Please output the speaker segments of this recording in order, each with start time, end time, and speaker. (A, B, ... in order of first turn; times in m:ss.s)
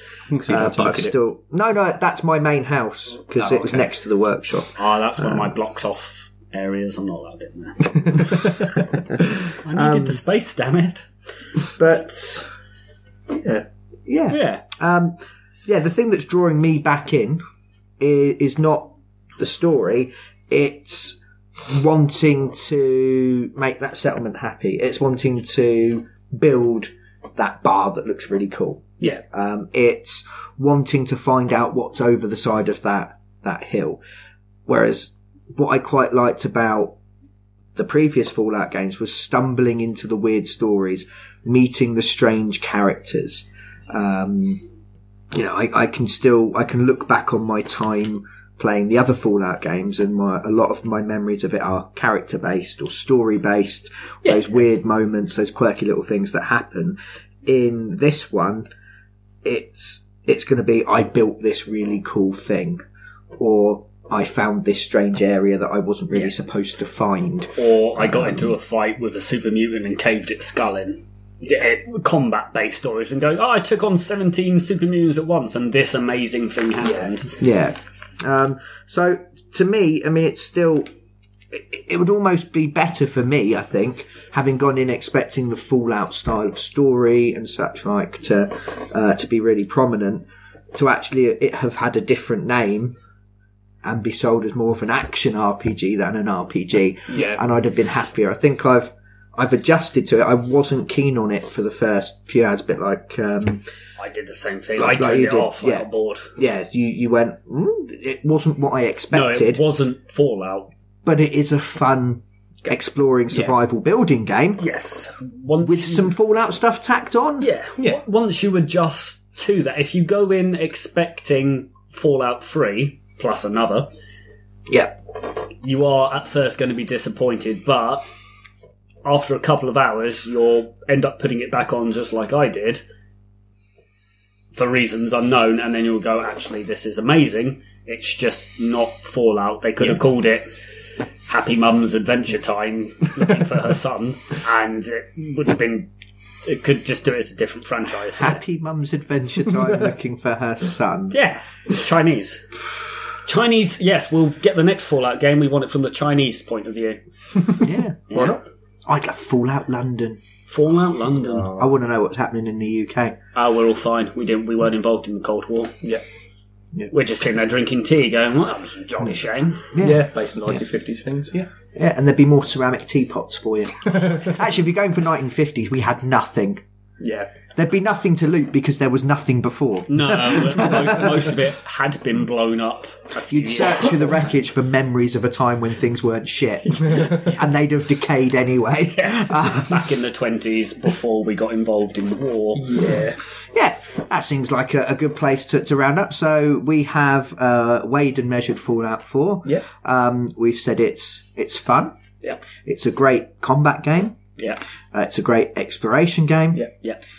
0:00.3-0:01.1 A
0:00.5-0:05.5 B
0:03.4-0:03.9 A
0:04.8-0:08.4 C
0:09.6-0:11.0 C
0:09.7-0:10.2 B
0:11.8-0:12.4 B
0:13.3-0:13.6 A
0:14.1-0:17.4 B
0:14.3-0:14.6 C
0:18.0-0:34.0 B
0:34.7-0:36.9 B
0:37.8-0:44.6 B
0:45.3-0:58.6 B
0:59.4-1:02.8 B
1:03.4-1:08.5 B
1:07.6-1:17.3 C
1:16.8-1:17.1 A
1:17.4-1:20.9 B
1:21.5-1:32.9 B
1:33.8-1:43.6 B
1:37.1-1:37.4 A
1:44.0-1:46.3 C
1:44.8-1:49.6 B
1:49.1-1:50.7 C
1:51.0-1:54.6 B
1:53.3-1:53.6 A
1:54.6-1:56.1 C
1:55.6-1:57.5 B
1:57.4-2:03.9 C
2:04.7-2:04.9 B
2:05.6-2:08.0 C
2:09.0-2:12.8 C
2:14.5-2:20.4 C
2:21.3-2:25.9 C
2:26.4-2:28.4 C
2:28.2-2:31.2 B
2:31.1-2:32.4 C
2:33.2-2:37.0 C
2:37.6-2:38.0 B
2:38.1-2:38.4 C
2:38.1-2:38.4 A
2:38.8-2:40.2 B
2:40.5-2:41.6 C
2:41.5-2:43.2 B
2:43.3-2:45.8 C
2:46.9-2:49.7 C
2:49.7-2:50.1 B
2:49.8-2:51.5 A
2:51.7-2:56.6 B
2:53.9-2:54.3 A
2:57.0-2:57.3 A
2:57.5-3:01.4 B
2:59.9-3:04.3 C
3:03.3-3:09.9 B
3:08.8-3:12.7 C
3:12.6-3:13.2 A
3:13.5-3:21.9 B
3:22.6-3:24.2 B
3:24.9-3:26.6 B